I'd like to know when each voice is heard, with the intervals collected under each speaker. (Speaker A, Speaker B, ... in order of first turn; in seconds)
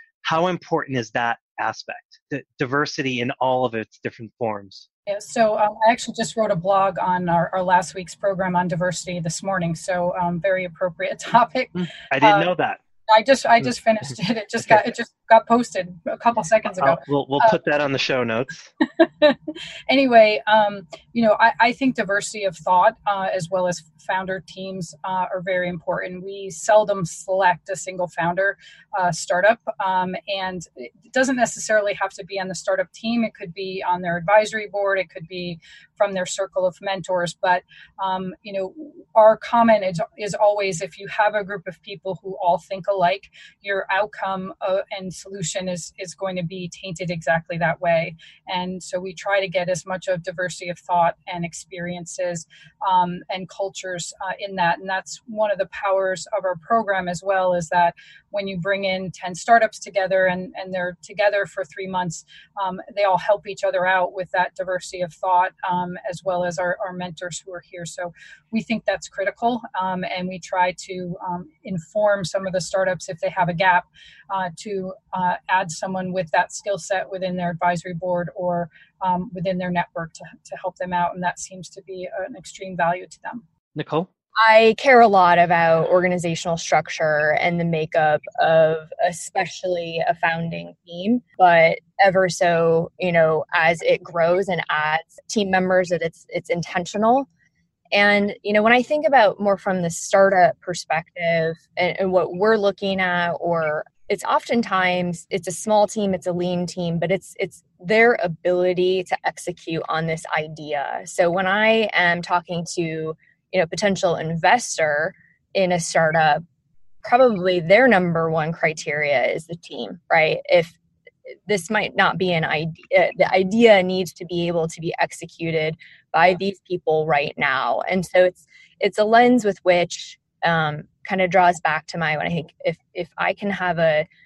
Speaker A: 0.2-4.9, 11.8-12.8, 16.6-18.7, 83.8-84.1
Speaker B: 5.1-12.5, 13.1-17.6, 18.8-83.4
Speaker C: 84.4-97.3, 97.9-116.4, 117.0-120.8, 121.5-134.1